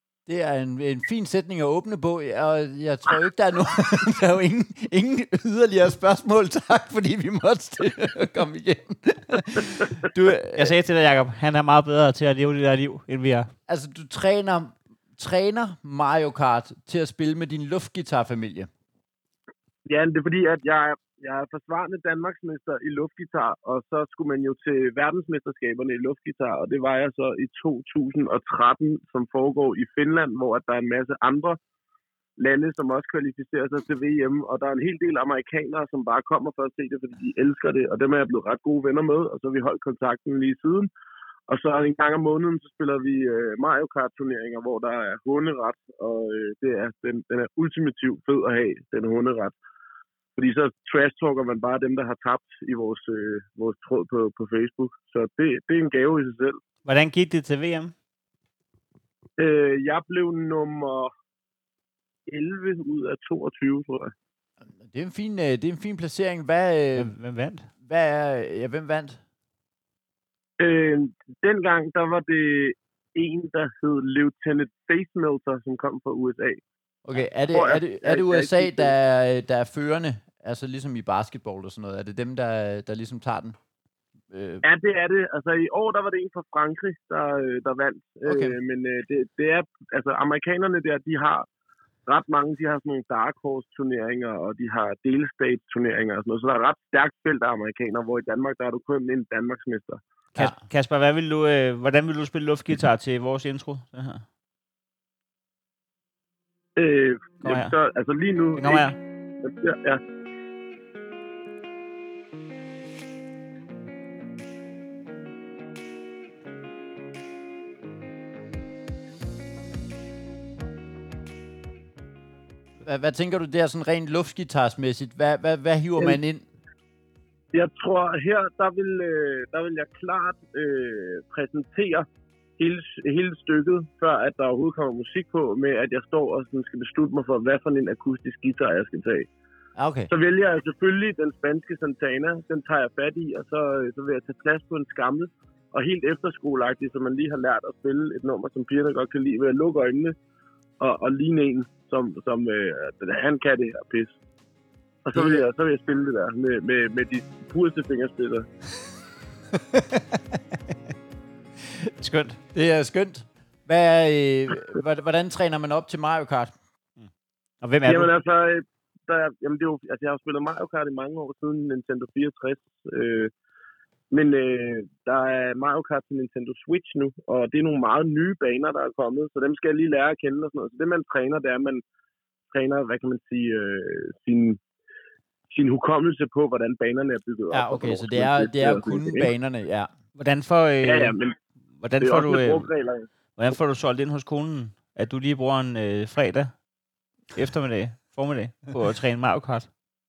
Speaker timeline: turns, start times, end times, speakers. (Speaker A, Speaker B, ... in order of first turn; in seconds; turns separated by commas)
Speaker A: 0.3-10.7, Speaker B: 10.6-13.5, Speaker A: 13.7-18.7, Speaker C: 19.9-31.6, Speaker C: 32.4-40.9, Speaker C: 41.5-49.5, Speaker C: 50.4-56.6, Speaker B: 56.9-57.9, Speaker C: 59.4-61.1, Speaker C: 62.3-64.1, Speaker A: 64.7-67.1, Speaker B: 67.0-67.7, Speaker A: 67.8-69.2, Speaker C: 70.6-76.6, Speaker A: 77.0-83.6, Speaker C: 77.5-78.9, Speaker A: 84.3-84.6, Speaker C: 84.6-91.5, Speaker A: 88.3-88.6, Speaker C: 92.1-100.0, Speaker B: 100.3-104.2, Speaker C: 106.8-108.9, Speaker B: 107.4-107.7, Speaker B: 108.6-109.0, Speaker C: 109.4-110.0, Speaker A: 122.8-126.5, Speaker C: 127.5-132.1, Speaker C: 132.6-139.3, Speaker A: 139.8-140.1, Speaker C: 140.1-150.2, Speaker C: 150.8-154.1, Speaker C: 155.1-158.5, Speaker A: 155.2-155.4, Speaker A: 159.5-160.4, Speaker B: 162.0-162.4, Speaker A: 162.5-166.6, Speaker B: 167.6-168.1, Speaker C: 167.8-173.3, Speaker C: 174.1-181.8, Speaker C: 182.5-184.6, Speaker C: 185.5-189.3, Speaker A: 187.5-189.9, Speaker B: 190.2-191.2, Speaker C: 190.8-191.4, Speaker B: 191.8-192.7, Speaker C: 192.0-193.1, Speaker B: 193.4-196.5, Speaker B: 197.3-199.7